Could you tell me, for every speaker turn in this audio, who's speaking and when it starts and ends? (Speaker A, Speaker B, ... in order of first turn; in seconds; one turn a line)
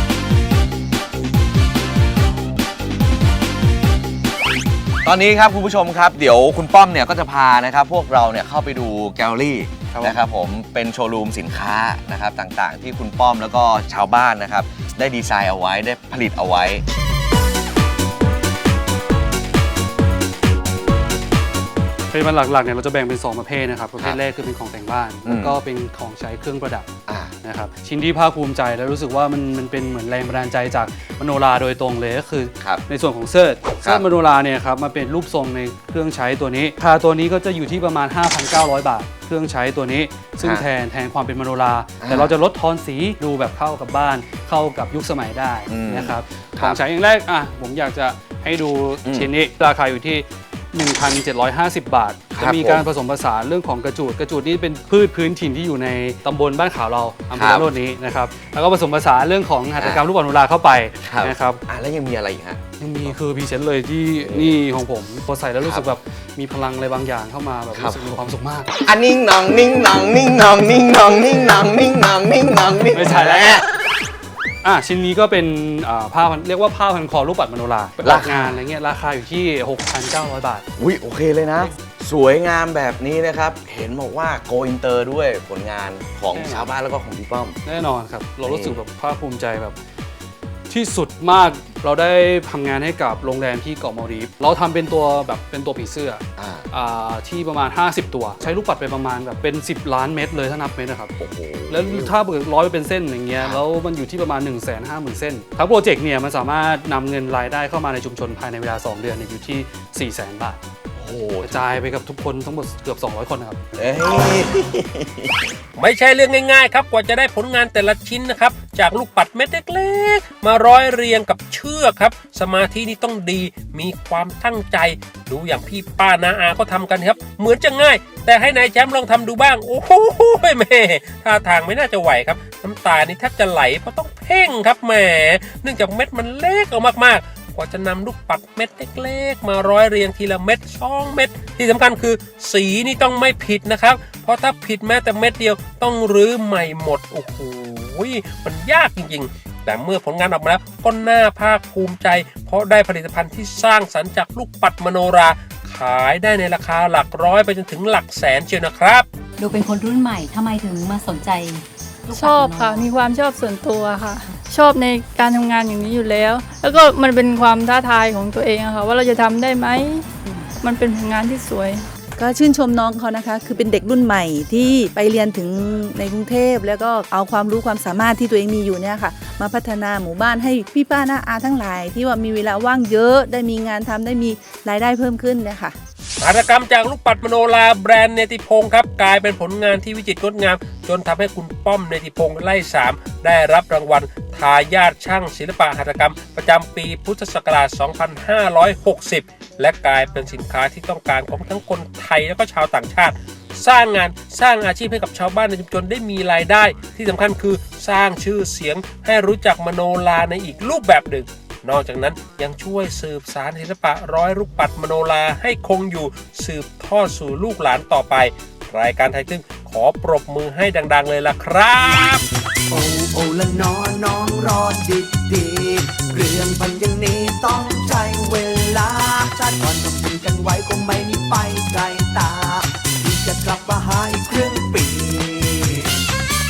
Speaker A: 5.0-16.8
Speaker B: 9.9-10.2
Speaker B: 22.1-26.9
Speaker A: 25.2-25.6
Speaker A: 27.1-27.3
Speaker B: 27.4-61.6
Speaker A: 40.4-40.7
Speaker A: 42.0-42.3
Speaker A: 45.7-46.8
Speaker A: 49.0-49.3
Speaker A: 52.3-52.9
Speaker A: 57.3-57.7
Speaker A: 59.8-60.0
Speaker A: 61.0-63.1
Speaker B: 62.8-68.7
Speaker A: 64.2-64.6
Speaker A: 65.6-65.8
Speaker A: 67.7-68.2
Speaker A: 68.8-73.7
Speaker B: 72.9-73.6
Speaker B: 74.6-80.6
Speaker A: 78.0-78.5
Speaker A: 80.8-87.6
Speaker B: 86.3-86.8
Speaker B: 87.6-89.8
Speaker A: 88.4-88.8
Speaker B: 90.7-101.1
Speaker A: 96.4-96.7
Speaker A: 101.2-102.1
Speaker B: 101.7-110.6
Speaker A: 111.0-111.7
Speaker B: 111.4-113.6
Speaker A: 113.7-115.4
Speaker C: 115.8-159.1
Speaker D: 159.4-162.9
Speaker E: 162.1-171.8
Speaker F: 172.2-185.7
Speaker C: 186.2-222.2
Speaker G: 222.7-235.9